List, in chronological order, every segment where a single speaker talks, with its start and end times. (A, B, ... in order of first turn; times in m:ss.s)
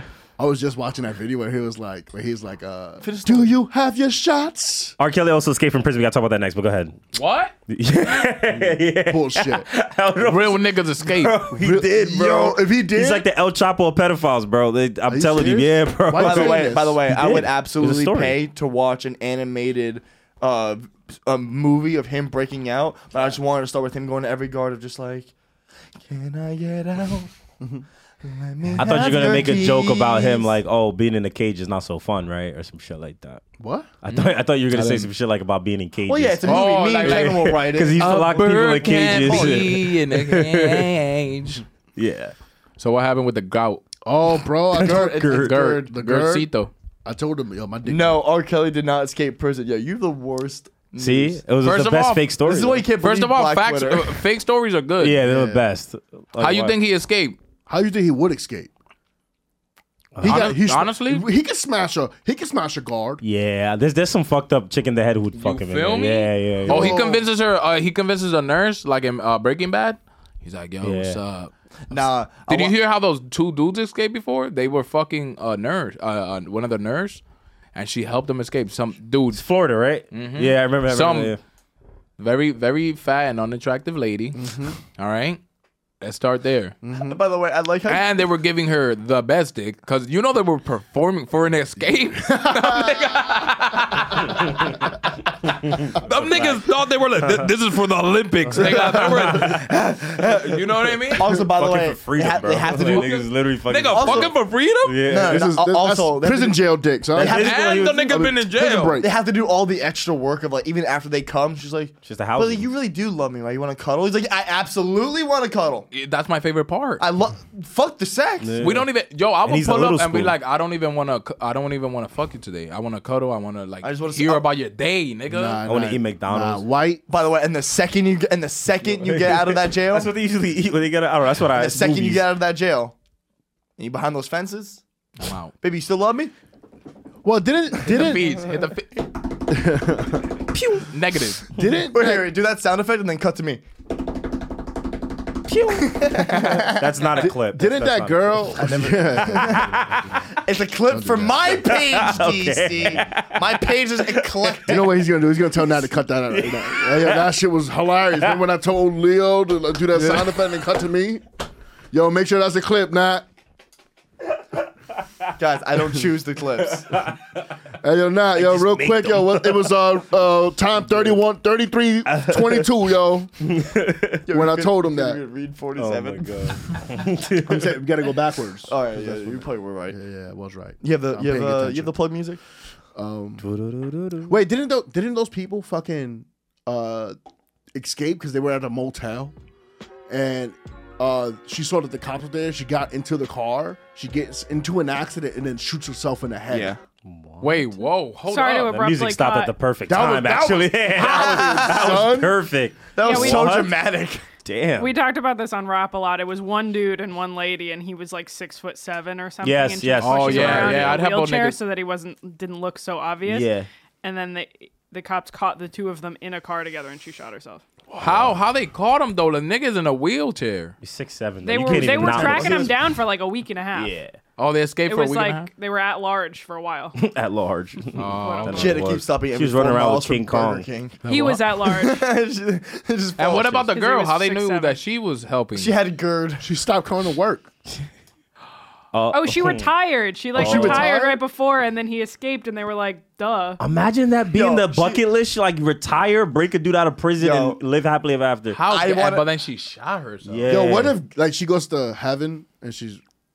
0:00.4-0:05.0 A
0:03.0-0:03.5 B
0:05.0-0:07.1 C
0:07.1-0:07.5 D
0:07.7-0:18.4 C
0:09.1-0:09.7 A
0:10.2-0:11.4 D
0:11.5-0:13.3 A
0:15.1-0:17.3 A
0:16.2-0:25.3 B
0:26.0-0:27.3 B
0:28.2-0:30.5 B
0:28.8-0:33.4 C
0:33.6-0:33.9 A
0:34.0-0:40.9 C
0:34.1-0:35.1 D
0:36.1-0:39.7 B
0:36.4-0:41.6 D
0:42.0-0:42.3 C
0:42.8-0:43.9 D
0:44.0-0:46.5 A
0:44.7-0:45.6 C
0:44.8-0:46.7 D
0:47.0-0:48.2 A
0:47.9-0:50.8 B
0:50.9-0:52.3 D
0:51.0-0:52.8 C
0:52.4-0:54.2 B
0:53.0-0:55.2 D
0:55.0-0:56.7 C
0:55.2-0:55.6 A
0:56.4-0:57.4 D
0:57.7-0:58.7 A
1:00.2-1:00.5 C
1:00.2-1:03.2 A
1:00.2-1:01.3 D
1:03.2-1:07.0 C
1:05.4-1:17.2 D
1:06.6-1:07.3 A
1:10.8-1:11.2 C
1:11.9-1:12.8 B
1:17.7-1:19.4 D
1:19.3-1:21.4 C
1:20.1-1:21.4 D
1:22.2-1:25.4 D
1:24.3-1:24.8 A
1:26.0-1:26.8 D
1:26.8-1:27.2 A
1:26.9-1:28.1 B
1:27.9-1:35.1 D
1:32.3-1:33.0 A
1:35.7-1:36.6 C
1:35.7-1:41.3 D
1:37.2-1:37.5 C
1:38.6-1:39.8 C
1:39.7-1:40.3 B
1:41.1-1:43.1 B
1:41.6-1:45.5 C
1:42.6-1:45.0 D
1:43.9-1:44.4 B
1:45.1-1:47.8 B
1:45.2-1:47.5 A
1:47.2-1:48.2 C
1:47.2-1:49.0 D
1:48.1-1:49.1 A
1:49.0-1:55.9 B
1:52.0-1:52.7 C
1:55.9-1:57.0 D
1:57.0-1:58.7 B
1:58.4-1:58.9 C
1:58.6-2:05.6 D
1:59.4-2:00.4 C
2:03.8-2:04.5 B
2:05.3-2:07.0 A
2:05.7-2:06.6 C
2:07.1-2:10.1 B
2:09.1-2:12.2 C
2:11.6-2:13.0 B
2:13.8-2:14.8 B
2:15.2-2:15.5 D
2:15.6-2:16.3 B
2:17.2-2:18.5 A
2:17.8-2:19.0 D
2:19.5-2:20.3 A
2:20.6-2:21.5 D
2:21.5-2:22.3 A
2:21.9-2:23.6 B
2:25.5-2:30.2 C
2:25.7-2:27.2 B
2:27.1-2:29.9 A
2:29.2-2:29.8 B
2:30.3-2:34.9 B
2:30.9-2:31.8 A
2:31.6-2:33.5 C
2:34.1-2:34.8 C
2:34.7-2:41.2 A
2:36.3-2:37.2 C
2:41.9-2:43.3 A
2:45.4-2:47.0 B
2:46.9-2:47.4 C
2:47.8-2:53.3 A
2:48.4-2:49.7 C
2:52.1-2:52.7 C
2:53.4-2:54.2 C
2:54.3-2:56.6 B
2:54.3-2:55.2 A
2:55.8-2:57.8 C
2:57.4-3:01.9 A
2:58.7-3:00.0 B
3:00.8-3:02.4 B
3:03.0-3:03.4 A
3:03.4-3:04.4 C
3:04.3-3:07.2 A
3:07.8-3:09.4 A
3:10.1-3:16.8 A
3:16.5-3:16.8 B
3:17.0-3:17.7 C
3:17.4-3:18.8 D
3:18.3-3:19.5 E
3:18.6-3:23.8 C
3:19.9-3:22.4 A
3:21.0-3:22.2 B
3:23.0-3:24.2 B
3:23.0-3:23.7 E
3:24.4-3:25.0 C
3:24.8-3:33.5 E
3:29.4-3:31.0 C
3:30.0-3:31.6 D
3:33.2-3:33.7 C
3:34.0-3:37.6 E
3:37.9-3:40.8 D
3:38.0-3:38.4 C
3:40.8-3:43.0 C
3:41.4-3:44.0 E
3:43.7-3:44.2 C
3:44.4-3:45.5 D
3:44.8-3:47.0 E
3:47.0-3:50.7 C
3:48.0-3:48.8 D
3:48.1-3:48.8 E
3:48.5-3:53.7 B
3:51.0-3:51.4 D
3:51.0-3:52.0 E
3:53.2-3:55.8 D
3:53.6-3:54.8 E
3:55.6-3:56.5 B
3:56.4-3:57.5 A
3:58.9-3:59.7 C
3:59.1-4:03.6 E
4:00.4-4:00.9 C
4:00.4-4:00.8 A
4:00.4-4:01.0 B
4:03.6-4:08.6 C
4:04.3-4:05.0 B
4:07.2-4:07.6 B
4:08.5-4:10.7 D
4:08.7-4:09.3 B
4:10.2-4:11.0 C
4:10.5-4:13.0 A